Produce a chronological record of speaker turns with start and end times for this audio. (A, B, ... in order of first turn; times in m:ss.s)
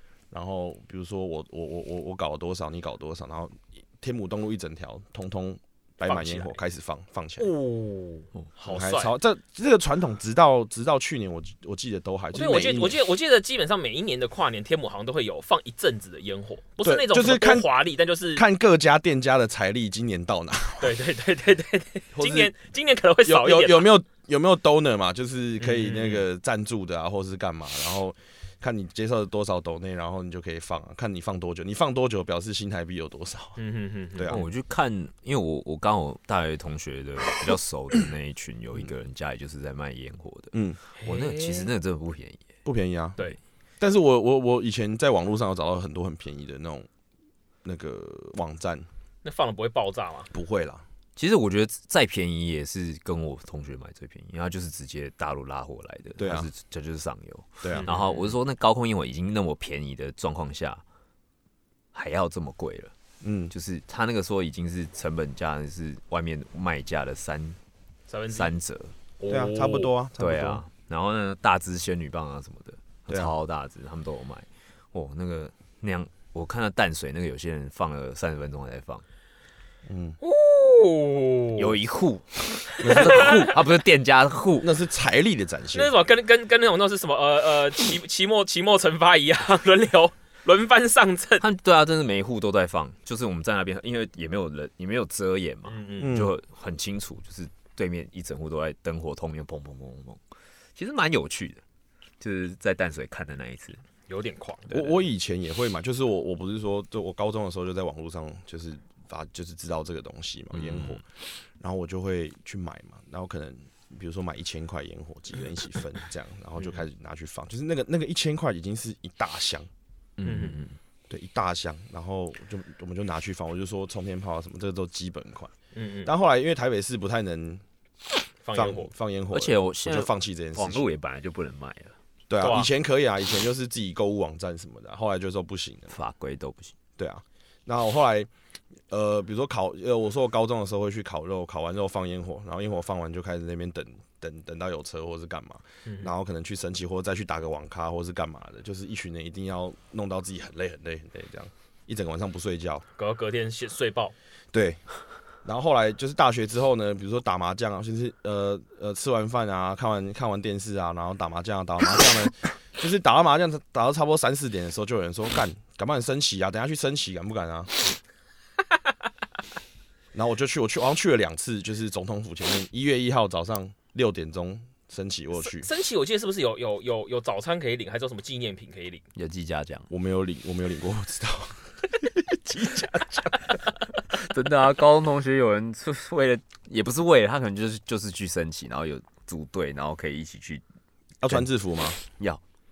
0:00.3-0:07.5 A
0:06.0-0:06.6 B
0:07.4-0:09.1 B
0:08.6-0:13.0 A
0:12.3-0:18.4 B
0:16.8-0:17.7 A
0:18.3-0:21.0 A
0:20.8-0:23.9 B
0:22.1-0:22.5 A
0:23.2-0:33.6 A
0:25.6-0:26.2 B
0:33.6-0:34.4 B
0:34.1-0:34.4 A
0:34.3-0:42.4 C
0:40.5-0:40.8 A
0:41.0-0:41.7 B
0:42.6-0:43.2 A
0:43.8-0:46.9 A
0:47.6-0:48.8 A
0:49.2-0:50.3 B
0:50.3-0:50.8 A
0:51.2-1:00.8 C
0:56.2-0:56.5 A
0:57.6-0:57.9 A
0:57.7-0:58.3 B
1:01.9-1:02.9 C
1:03.2-1:03.5 A
1:03.5-1:07.6 C
1:08.1-1:08.5 B
1:08.3-1:08.9 C
1:09.2-1:09.9 B
1:09.3-1:10.6 A
1:10.2-1:19.0 C
1:13.1-1:13.3 A
1:19.9-1:20.2 A
1:20.2-1:21.8 B
1:21.6-1:24.7 C
1:22.8-1:23.4 A
1:22.8-1:23.5 B
1:24.6-1:25.9 A
1:25.7-1:31.4 B
1:31.4-1:40.2 C
1:35.6-1:36.2 B
1:36.0-1:36.3 A
1:40.8-1:41.6 C
1:42.2-1:43.8 C
1:44.1-1:45.0 B
1:44.7-1:51.0 A
1:50.5-1:51.0 C
1:51.6-1:59.7 A
2:00.2-2:00.8 C
2:00.2-2:00.6 B
2:01.1-2:05.5 A
2:05.7-2:06.1 B
2:06.0-2:07.6 A
2:08.4-2:08.9 B
2:08.5-2:10.8 A
2:09.3-2:11.9 C
2:12.3-2:15.9 A
2:12.4-2:12.7 B
2:15.9-2:16.7 C
2:17.0-2:18.3 A
2:18.9-2:32.8 A
2:25.8-2:26.1 B
2:33.0-2:34.1 B
2:34.5-2:34.8 A
2:35.4-2:47.7 A
2:50.1-2:55.7 A
2:55.4-2:59.0 B
2:59.1-2:59.9 C
2:59.9-3:03.3 A
3:04.1-3:10.6 C
3:11.2-3:12.0 A
3:12.0-3:12.4 C